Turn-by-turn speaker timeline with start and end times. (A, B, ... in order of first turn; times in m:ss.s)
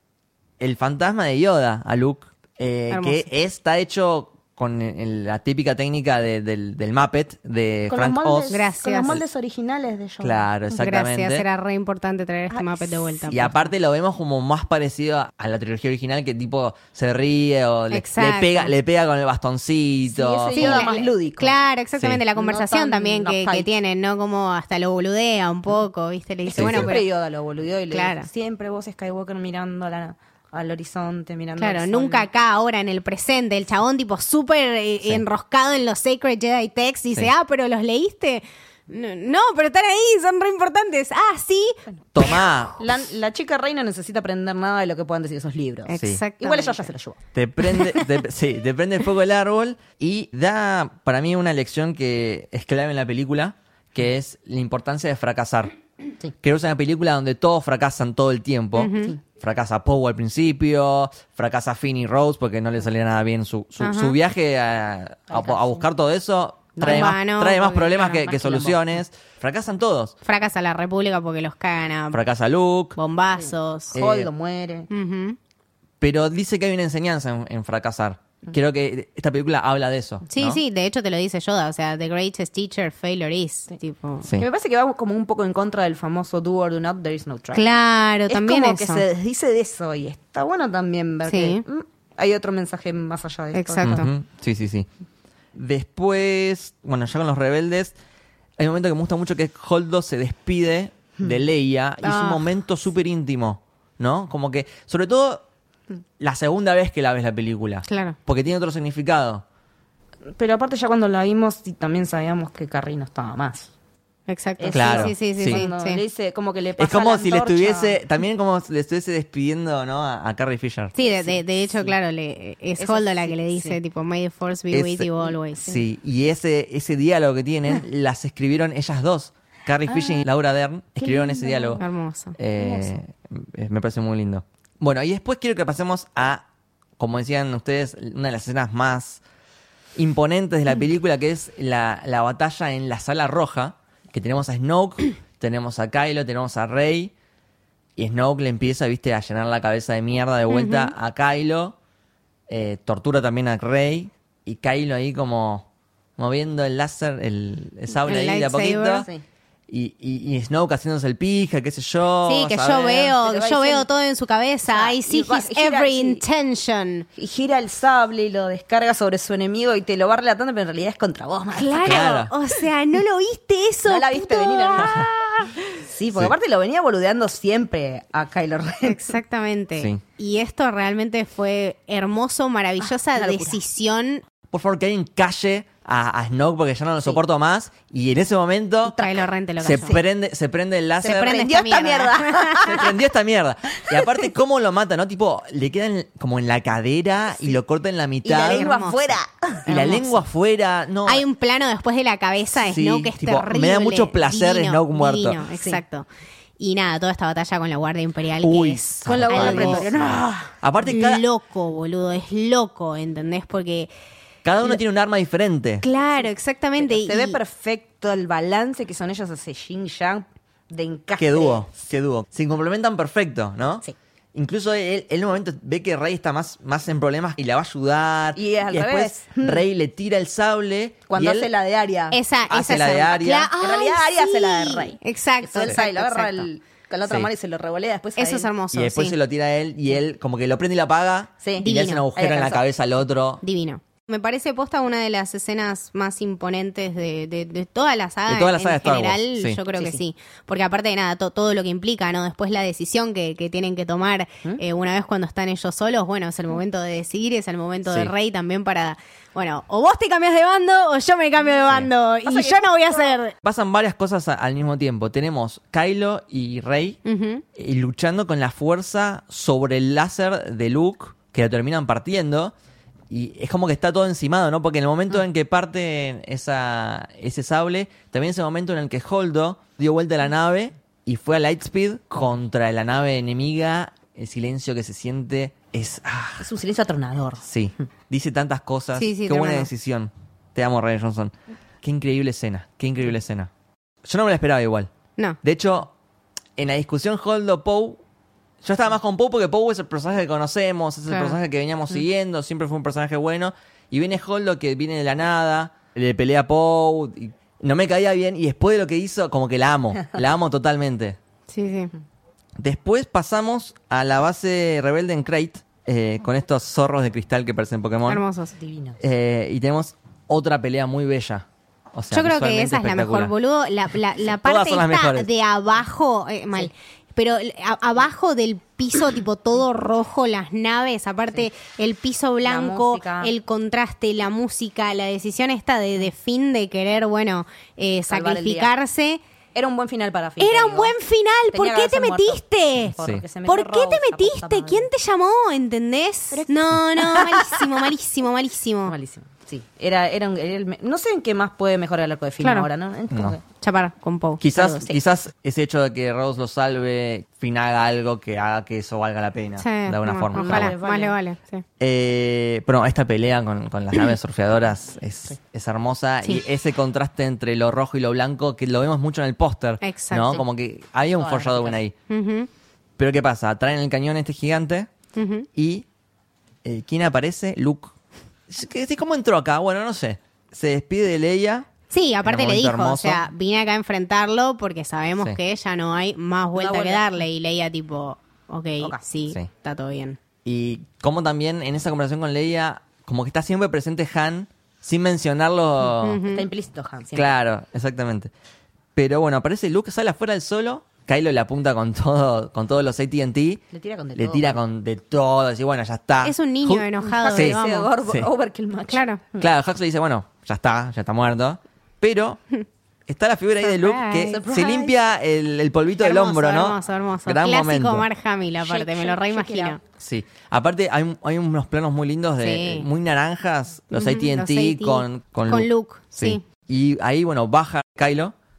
0:00.6-0:08.6 A
0:02.9-0:03.2 B
0:07.9-0:10.8 C
0:08.5-0:09.2 B
0:10.2-0:11.4 A
0:10.7-0:13.5 B
0:12.5-0:13.6 C
0:13.3-0:21.0 A
0:17.9-0:18.7 B
0:20.1-0:21.6 C
0:20.5-0:27.0 B
0:22.4-0:23.7 C
0:26.5-0:32.3 C
0:26.6-0:26.9 A
0:27.9-0:28.3 B
0:31.6-0:42.7 B
0:42.1-0:42.8 A
0:42.8-0:47.2 C
0:45.9-0:46.8 B
0:47.3-0:55.7 A
0:56.4-1:10.2 A
0:58.8-0:59.2 B
1:03.8-1:04.2 B
1:05.3-1:05.8 C
1:06.8-1:07.2 C
1:06.8-1:08.4 B
1:08.2-1:09.0 C
1:10.2-1:12.2 B
1:12.1-1:13.0 A
1:13.0-1:14.0 B
1:13.4-1:14.9 C
1:13.9-1:14.3 A
1:14.9-1:15.4 B
1:16.0-1:20.6 A
1:20.3-1:24.3 B
1:24.4-1:27.7 C
1:27.5-1:29.0 B
1:28.3-1:33.9 C
1:31.3-1:31.6 B
1:33.5-1:34.1 B
1:33.8-1:34.9 A
1:35.5-1:38.0 A
1:38.6-1:45.4 A
1:42.0-1:42.4 B
1:46.2-1:49.4 A
1:47.9-1:48.2 B
1:50.3-1:53.7 C
1:54.3-1:56.0 B
1:54.6-1:58.0 C
1:54.7-1:55.7 A
1:56.8-2:00.9 A
2:01.0-2:05.8 B
2:01.0-2:02.0 C
2:02.8-2:03.8 C
2:04.7-2:05.1 A
2:05.2-2:05.8 C
2:05.6-2:11.8 A
2:09.9-2:10.2 C
2:11.0-2:11.8 C
2:11.8-2:12.4 B
2:12.4-2:16.5 A
2:12.6-2:13.0 C
2:17.0-2:19.2 A
2:20.0-2:27.1 A
2:28.0-2:31.8 A
2:30.5-2:30.9 B
2:32.5-2:39.1 A
2:38.1-2:39.1 B
2:38.9-2:39.2 C
2:39.7-2:43.2 A
2:42.2-2:47.1 B
2:43.2-2:43.9 C
2:44.7-2:46.2 C
2:47.2-2:52.0 C
2:51.6-2:55.5 B
2:51.8-2:52.3 A
2:53.8-2:59.1 C
2:54.8-2:55.1 A
2:58.8-3:04.2 B
3:02.8-3:03.6 C
3:04.5-3:09.0 A
3:08.9-3:09.8 C
3:09.0-3:10.0 B
3:09.6-3:11.4 A
3:11.0-3:13.0 C
3:11.0-3:12.9 B
3:12.6-3:18.7 A
3:13.9-3:14.2 C
3:18.2-3:20.1 C
3:18.4-3:19.0 B
3:19.7-3:21.2 A
3:19.7-3:20.0 B
3:21.1-3:26.1 B
3:22.5-3:25.4 A
3:25.6-3:25.8 C
3:26.6-3:29.9 B
3:28.4-3:31.2 A
3:29.0-3:30.5 C
3:30.8-3:33.9 B
3:34.4-3:35.8 A
3:35.8-3:37.4 B
3:36.8-3:41.7 C
3:41.2-3:51.5 A
3:48.4-3:49.6 C
3:51.1-3:52.2 C
3:52.1-3:56.5 B
3:52.5-3:53.5 A
3:53.6-3:58.5 C
3:58.2-3:59.2 B
3:58.7-4:03.4 A
4:01.4-4:02.6 C
4:01.6-4:02.1 B
4:03.4-4:23.3 B
4:08.3-4:09.6 A
4:09.8-4:10.0 C
4:17.9-4:18.1 A
4:22.2-4:23.2 C
4:23.4-4:27.0 A
4:27.0-4:27.4 B
4:27.6-4:32.5 A
4:33.1-4:46.5 A
4:46.4-4:47.5 C
4:47.4-4:53.5 A
4:49.0-4:49.7 B
4:54.0-4:54.9 A
4:55.4-4:55.9 A
4:56.6-4:58.0 A
4:58.6-5:11.2 A
5:01.1-5:01.4 B
5:11.5-5:11.9 B
5:12.6-5:18.2 A
5:18.1-5:18.5 B
5:18.6-5:19.0 C
5:19.0-5:23.3 A
5:22.1-5:39.2 B
5:24.4-5:25.3 A
5:32.4-5:33.3 C
5:38.1-5:38.7 C
5:39.6-5:41.0 C
5:40.4-5:49.0 B
5:41.5-5:44.9 C
5:46.3-5:47.9 C
5:48.9-5:53.4 C
5:52.4-5:52.7 B
5:53.1-5:53.4 A
5:53.6-5:55.0 B
5:54.4-6:00.8 A
5:59.6-6:01.6 B
6:00.3-6:01.2 C
6:01.8-6:11.9 A
6:09.8-6:10.4 B
6:11.2-6:11.8 C
6:12.1-6:12.5 B
6:13.0-6:14.9 A
6:15.2-6:15.5 B
6:15.6-6:15.9 A
6:16.6-6:18.0 A
6:18.5-6:21.7 A
6:21.9-6:30.2 B
6:22.2-6:23.2 A
6:26.6-6:27.2 C
6:30.4-6:36.2 A
6:36.0-6:36.5 B
6:36.3-6:37.4 C
6:37.1-6:38.3 A
6:39.0-6:43.6 A
6:43.7-6:44.6 C
6:44.2-6:48.3 A
6:46.2-6:47.9 B
6:47.0-6:49.5 C
6:48.9-6:49.2 B
6:49.4-6:52.4 A
6:53.1-6:58.1 A
6:53.6-6:54.4 B
6:54.3-6:55.0 C
6:56.0-6:59.8 B
6:58.6-6:59.8 C
7:00.0-7:08.4 A
7:02.4-7:02.9 B
7:03.9-7:06.4 B